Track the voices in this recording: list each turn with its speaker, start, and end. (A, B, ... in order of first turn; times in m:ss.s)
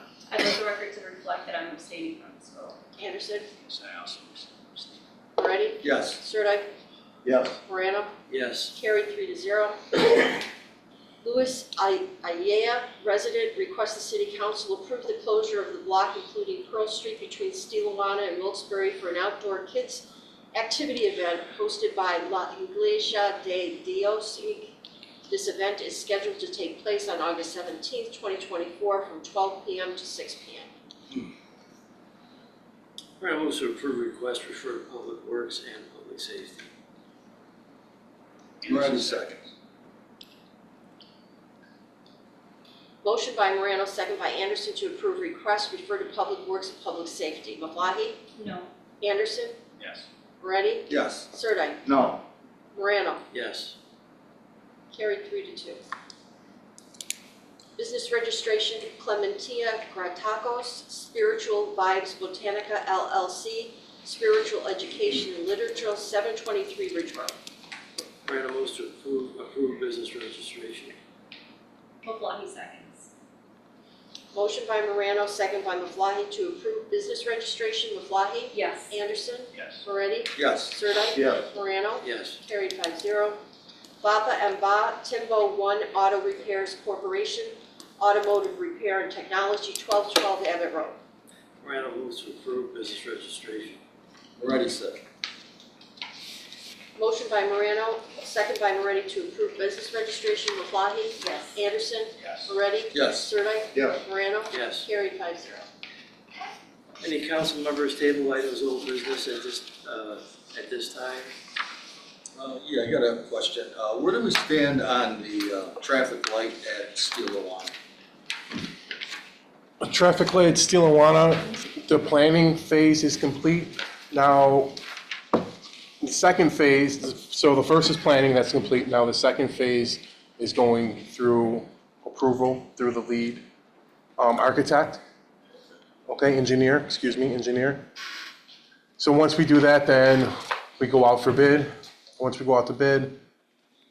0:00.3-0:02.8 A
0:03.0-0:03.4 B
0:05.4-0:06.7 B
0:05.8-0:06.2 C
0:07.2-0:07.6 C
0:07.6-0:08.1 B
0:08.3-0:08.7 D
0:08.7-0:10.4 B
0:11.2-0:24.7 B
0:25.3-0:30.7 B
0:33.2-0:36.7 D
0:38.6-0:39.4 C
0:43.0-0:48.2 B
0:48.4-0:48.7 A
0:49.0-0:49.6 B
0:50.4-0:51.8 B
0:50.9-0:51.3 C
0:51.8-0:52.2 C
0:52.8-0:53.2 B
0:53.3-0:53.8 D
0:54.9-0:55.8 B
0:57.8-1:07.4 B
1:08.2-1:11.0 D
1:12.0-1:13.1 A
1:14.3-1:23.4 B
1:18.5-1:18.9 A
1:20.3-1:21.4 C
1:22.0-1:22.4 D
1:24.0-1:30.9 B
1:31.6-1:33.8 D
1:34.4-1:35.0 C
1:37.0-1:45.6 B
1:41.2-1:41.6 A
1:42.9-1:44.0 C
1:44.5-1:44.9 D
1:47.0-1:51.3 D
1:52.4-1:57.7 C
1:59.8-2:04.7 E
2:06.0-2:13.4 E
2:14.2-2:15.0 E
2:16.1-2:17.8 E
2:19.0-2:23.1 E